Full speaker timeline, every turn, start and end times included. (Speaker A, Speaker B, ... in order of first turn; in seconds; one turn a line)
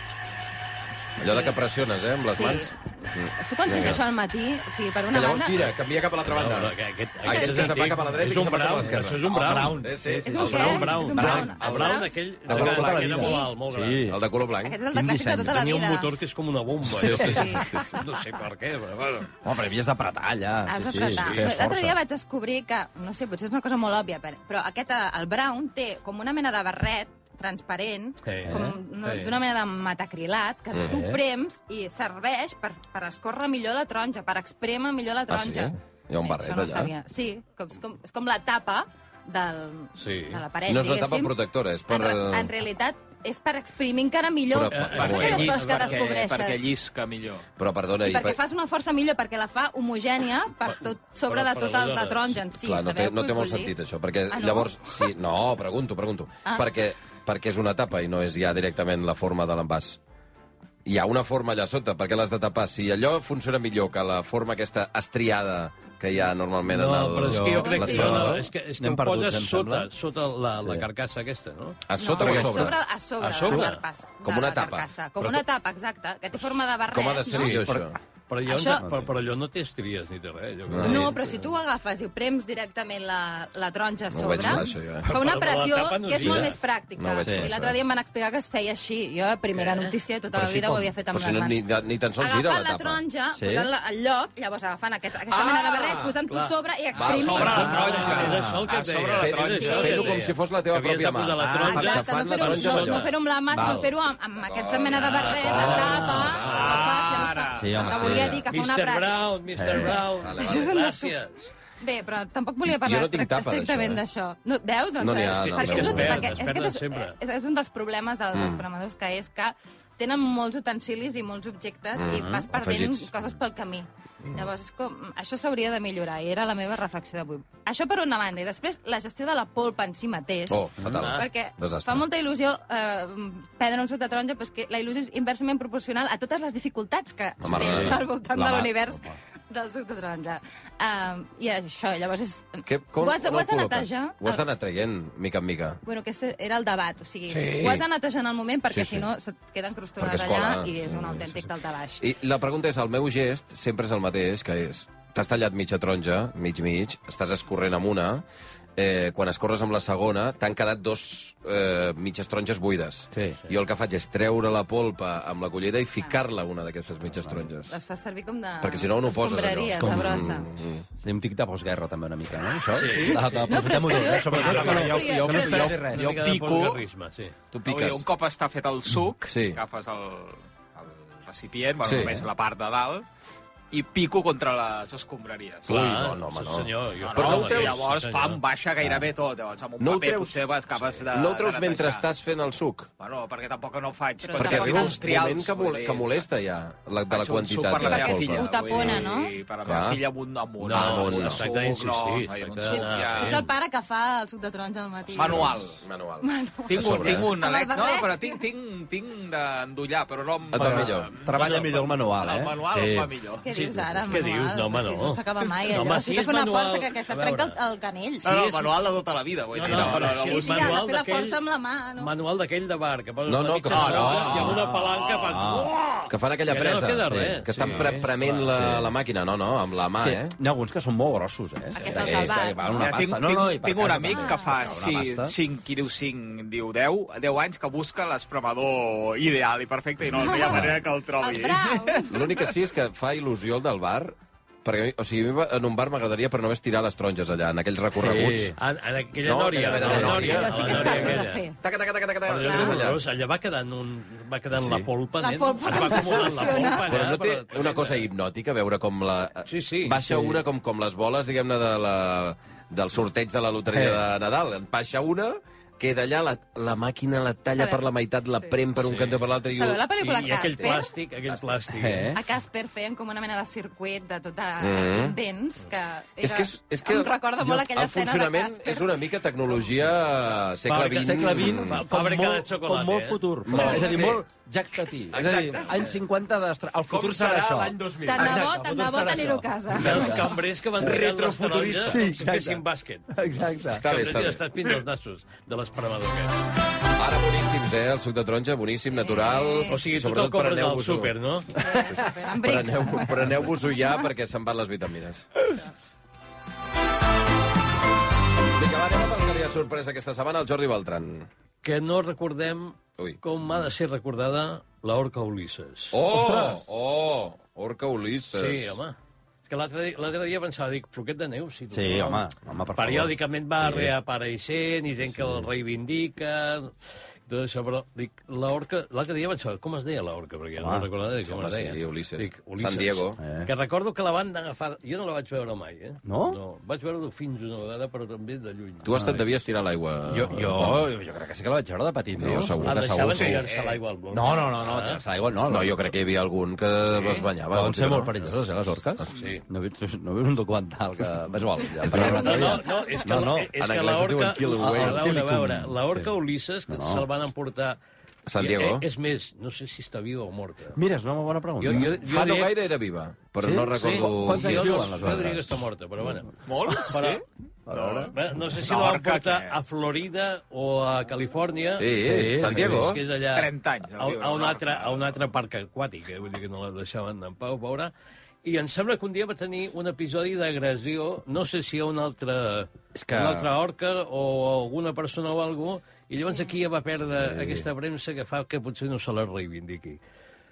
Speaker A: 1.2-4.0
Speaker B: 1.2-1.6
Speaker B: 2.3-2.8
Speaker B: 3.3-5.7
Speaker A: 5.1-13.3
Speaker C: 6.3-14.1
Speaker B: 7.3-7.8
Speaker D: 9.3-11.5
Speaker B: 10.2-12.2
Speaker D: 12.5-14.2
Speaker B: 13.1-13.5
Speaker A: 14.1-14.8
Speaker B: 14.6-16.1
Speaker D: 14.9-15.6
Speaker C: 15.4-19.3
Speaker A: 16.9-18.0
Speaker D: 17.0-17.4
Speaker B: 17.2-17.9
Speaker D: 19.4-22.0
Speaker B: 20.7-41.4
Speaker C: 21.1-21.5
Speaker C: 28.2-29.3
Speaker D: 28.5-28.8
Speaker A: 30.7-31.0
Speaker D: 30.9-31.2
Speaker A: 35.3-36.9
Speaker C: 40.0-40.4
Speaker A: 40.7-42.5
Speaker B: 41.9-46.7
Speaker A: 44.5-45.7
Speaker C: 44.7-46.1
Speaker E: 45.0-47.5
Speaker A: 47.6-48.4
Speaker B: 48.0-53.7
Speaker C: 51.3-52.4
Speaker A: 52.6-60.0
Speaker B: 54.3-55.1
Speaker A: 60.9-68.4
Speaker C: 66.7-72.7
Speaker D: 67.3-69.9
Speaker B: 67.5-68.3
Speaker A: 71.9-72.8
Speaker B: 72.0-77.6
Speaker D: 72.2-72.6
Speaker C: 73.2-73.8
Speaker A: 74.2-74.9
Speaker A: 76.9-78.0
Speaker D: 77.3-77.9
Speaker C: 78.3-81.4
Speaker B: 78.5-78.9
Speaker D: 78.8-79.1
Speaker A: 80.7-81.1
Speaker B: 80.8-91.6
Speaker A: 84.1-85.1
Speaker C: 85.0-86.6
Speaker A: 87.0-87.8
Speaker D: 87.2-87.5
Speaker C: 89.5-90.0
Speaker D: 90.3-90.9
Speaker A: 91.1-93.0
Speaker B: 92.2-98.1
Speaker D: 93.3-93.7
Speaker A: 95.3-96.2
Speaker C: 96.3-96.5
Speaker A: 97.0-98.5
Speaker E: 97.0-100.1
Speaker C: 97.1-103.1
Speaker D: 97.6-98.5
Speaker A: 99.1-103.1
Speaker B: 99.6-100.2
Speaker D: 101.4-101.9
Speaker B: 101.7-109.2
Speaker D: 103.5-103.9
Speaker A: 104.5-106.9
Speaker C: 104.9-107.0
Speaker E: 105.5-107.8
Speaker D: 105.5-106.3
Speaker D: 107.6-108.5
Speaker A: 107.8-108.3
Speaker C: 108.5-111.5
Speaker D: 109.6-110.0
Speaker A: 110.2-110.8
Speaker B: 110.3-111.1
Speaker B: 111.8-144.4
Speaker A: 112.7-114.0
Speaker A: 115.0-116.4
Speaker C: 115.5-117.2
Speaker A: 118.3-118.6
Speaker A: 122.0-123.1
Speaker D: 122.2-122.4
Speaker A: 130.5-132.1
Speaker D: 130.8-131.1
Speaker A: 137.4-138.0
Speaker D: 137.6-139.2
Speaker A: 142.7-145.8
Speaker B: 145.8-152.1
Speaker A: 147.3-147.9
Speaker A: 148.7-149.1
Speaker A: 150.0-151.5
Speaker A: 152.0-158.2
Speaker A: 158.8-167.7
Speaker D: 163.1-163.4
Speaker B: 167.7-170.5
Speaker A: 168.6-170.8
Speaker D: 169.8-170.2
Speaker D: 171.0-176.8
Speaker C: 172.7-173.8
Speaker B: 173.4-175.8
Speaker E: 174.2-176.7
Speaker C: 174.4-174.9
Speaker C: 175.7-177.3
Speaker A: 177.5-178.1
Speaker E: 177.7-183.1
Speaker A: 179.3-179.6
Speaker A: 181.8-182.3
Speaker E: 183.7-185.8
Speaker A: 185.7-187.8
Speaker C: 185.7-188.4
Speaker E: 187.0-192.0
Speaker A: 189.8-192.9
Speaker E: 193.0-196.2
Speaker B: 194.2-195.0
Speaker A: 194.4-199.1
Speaker E: 197.1-203.5
Speaker B: 197.7-199.3
Speaker A: 199.7-200.0
Speaker C: 200.6-203.5
Speaker A: 200.7-201.5
Speaker B: 202.7-205.6
Speaker E: 205.1-205.8
Speaker A: 205.2-207.3
Speaker B: 206.2-208.4
Speaker E: 206.7-213.4
Speaker A: 210.5-211.1
Speaker D: 210.6-213.1
Speaker B: 213.4-218.4
Speaker C: 213.5-217.6
Speaker D: 213.8-214.1
Speaker E: 218.2-220.8
Speaker C: 218.3-218.7
Speaker C: 219.5-221.4
Speaker A: 219.7-220.0
Speaker B: 220.1-222.1
Speaker C: 222.0-228.5
Speaker A: 223.2-224.6
Speaker E: 223.7-225.4
Speaker D: 224.1-225.7
Speaker A: 226.1-230.4
Speaker D: 227.1-228.0
Speaker D: 228.5-228.9
Speaker D: 230.0-235.3
Speaker B: 231.7-232.9
Speaker E: 232.7-242.4
Speaker B: 234.1-234.6
Speaker B: 240.2-242.2
Speaker A: 242.1-248.6
Speaker D: 248.0-248.6
Speaker C: 248.6-251.4
Speaker A: 249.2-253.0
Speaker B: 249.8-251.6
Speaker D: 249.8-250.2
Speaker C: 252.3-258.1
Speaker B: 252.4-252.8
Speaker A: 254.6-254.8
Speaker B: 255.2-257.0
Speaker A: 256.8-270.7
Speaker C: 259.5-260.3
Speaker D: 263.7-264.0
Speaker B: 267.5-267.8
Speaker C: 268.8-269.3
Speaker B: 269.6-270.9
Speaker C: 270.0-272.1
Speaker A: 271.3-271.6
Speaker D: 271.7-272.2
Speaker B: 272.1-278.9
Speaker A: 274.6-275.2
Speaker A: 276.2-281.8
Speaker C: 280.7-284.0
Speaker D: 280.7-290.2
Speaker A: 283.4-284.2
Speaker B: 283.6-284.1
Speaker A: 285.1-285.9
Speaker A: 286.9-288.5
Speaker B: 288.1-290.3
Speaker C: 289.7-296.4
Speaker A: 290.8-292.0
Speaker D: 291.9-293.8
Speaker A: 293.7-294.4
Speaker A: 296.9-301.1
Speaker B: 298.9-299.8
Speaker C: 299.7-301.6
Speaker B: 301.6-303.4
Speaker A: 301.7-305.3
Speaker A: 308.6-311.3
Speaker C: 311.6-316.0
Speaker A: 315.9-318.8
Speaker D: 316.1-316.6
Speaker C: 318.3-319.0
Speaker C: 319.5-326.7
Speaker D: 321.7-323.1
Speaker D: 325.1-325.5
Speaker C: 327.3-339.4
Speaker D: 330.6-330.9
Speaker A: 331.2-333.2
Speaker D: 333.2-333.5
Speaker D: 336.1-336.4
Speaker A: 338.8-340.9
Speaker D: 340.1-343.3
Speaker A: 342.2-343.5
Speaker C: 342.6-345.0
Speaker E: 343.3-343.8
Speaker D: 344.1-345.9
Speaker A: 345.5-348.4
Speaker C: 347.0-347.3
Speaker D: 347.5-353.5
Speaker C: 349.1-349.4
Speaker A: 351.8-352.5
Speaker C: 351.9-357.8
Speaker B: 352.0-353.0
Speaker A: 353.3-355.6
Speaker D: 354.6-356.1
Speaker D: 356.7-357.1
Speaker A: 358.3-358.9
Speaker C: 358.4-360.8
Speaker D: 360.8-361.9
Speaker C: 361.6-362.6
Speaker A: 361.7-365.1
Speaker D: 363.4-365.5
Speaker C: 363.7-367.2
Speaker E: 366.5-369.6
Speaker D: 367.7-368.1
Speaker C: 368.1-377.9
Speaker A: 371.8-373.0
Speaker D: 372.0-372.9
Speaker E: 373.3-375.2
Speaker C: 378.4-390.0
Speaker D: 382.9-383.5
Speaker D: 387.2-387.7